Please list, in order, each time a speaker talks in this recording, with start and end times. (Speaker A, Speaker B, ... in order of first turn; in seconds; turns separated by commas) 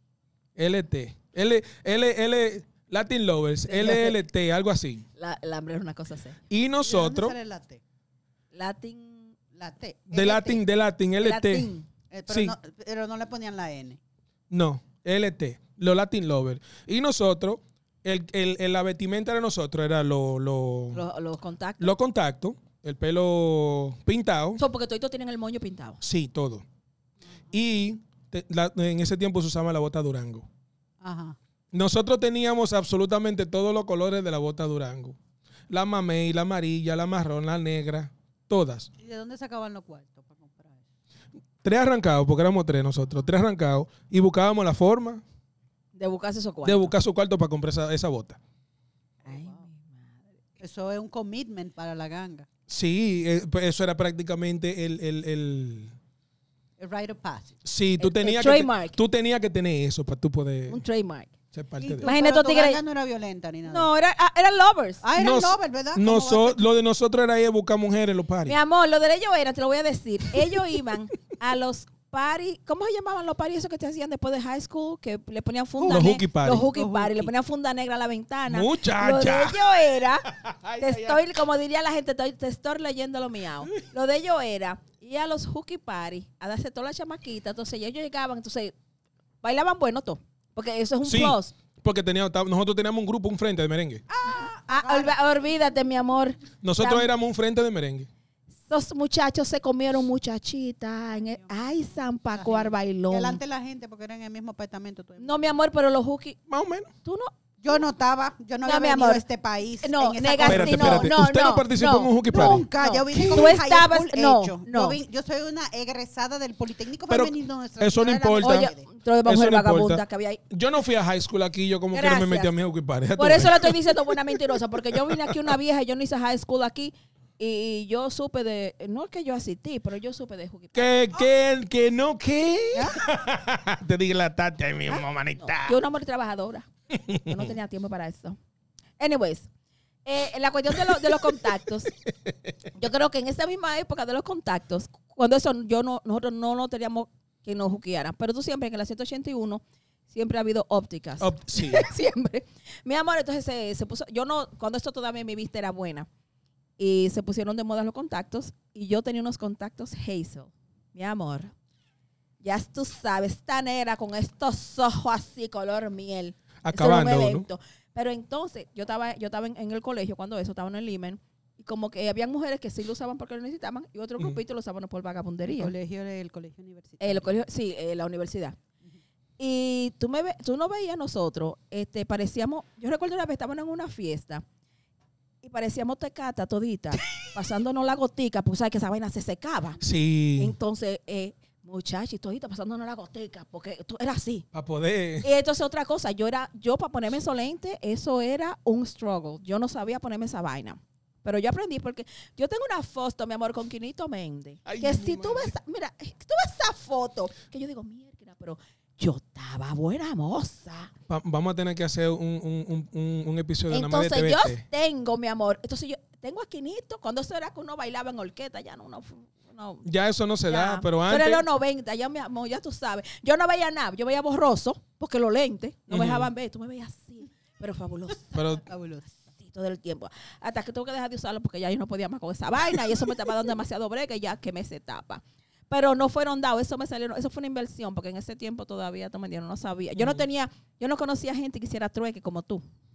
Speaker A: 0.6-5.0, Speaker B: 3.7-4.2, Speaker B: 5.2-6.4, Speaker A: 6.5-7.3, Speaker C: 6.8-7.8, Speaker B: 8.5-9.3, Speaker C: 9.5-10.6, Speaker A: 10.1-11.7, Speaker B: 11.2-11.9, Speaker C: 12.1-14.0, Speaker A: 12.3-12.5, Speaker A: 14.5-21.0, Speaker B: 20.9-21.9, Speaker A: 21.8-24.6, Speaker B: 24.6-26.0, Speaker A: 26.0-26.6, Speaker A: 27.5-30.5, Speaker C: 31.0-31.4, Speaker A: 31.7-35.2, Speaker A: 35.7-38.9, Speaker C: 39.0-40.8, Speaker A: 41.6-45.2, Speaker B: 45.9-46.9, Speaker A: 46.6-48.4, Speaker C: 49.2-49.6, Speaker B: 49.2-50.2, Speaker C: 50.6-52.5, Speaker A: 52.7-55.9, Speaker C: 56.8-57.6, Speaker A: 57.6-60.8, Speaker B: 58.0-59.0, Speaker B: 60.7-61.3, Speaker A: 61.5-62.1, Speaker C: 61.8-63.9, Speaker B: 62.0-62.8, Speaker B: 63.6-65.0, Speaker C: 65.0-66.7, Speaker A: 65.2-68.5, Speaker B: 68.5-88.7, Speaker C: 75.8-77.3, Speaker A: 75.9-76.7, Speaker A: 78.5-79.6, Speaker A: 80.3-81.2, Speaker B: 89.4-91.5, Speaker A: 91.0-94.0, Speaker C: 94.1-95.2, Speaker B: 94.2-97.1, Speaker A: 96.6-98.1, Speaker B: 98.7-103.4, Speaker C: 101.2-105.4, Speaker B: 105.2-106.4, Speaker A: 106.5-106.9, Speaker B: 107.0-107.3, Speaker C: 107.6-111.1, Speaker B: 108.6-109.2, Speaker B: 109.8-115.0, Speaker A: 110.5-113.5, Speaker C: 112.3-118.8, Speaker A: 117.1-118.7, Speaker B: 118.4-120.4, Speaker A: 119.2-124.4, Speaker B: 121.9-122.5, Speaker B: 123.2-131.0, Speaker A: 124.9-125.5, Speaker A: 130.7-135.8, Speaker C: 132.7-133.0, Speaker B: 134.9-138.4, Speaker A: 136.9-137.5, Speaker B: 139.0-139.5, Speaker B: 140.0-141.9, Speaker B: 142.7-156.1, Speaker A: 151.2-151.9, Speaker B: 156.8-161.5, Speaker B: 162.4-175.7, Speaker A: 166.6-167.5, Speaker C: 175.5-177.3, Speaker B: 177.0-178.6, Speaker B: 179.4-184.4, Speaker B: 185.4-189.8, Speaker A: 189.8-190.6, Speaker B: 190.4-194.4, Speaker A: 194.5-195.3, Speaker B: 195.2-210.9, Speaker A: 204.7-205.5, Speaker A: 211.1-214.6, Speaker B: 213.7-219.8, Speaker A: 219.8-221.4, Speaker B: 220.5-228.6, Speaker A: 225.9-226.3, Speaker A: 228.3-228.6, Speaker C: 228.7-229.2, Speaker B: 229.4-242.6, Speaker A: 240.0-240.2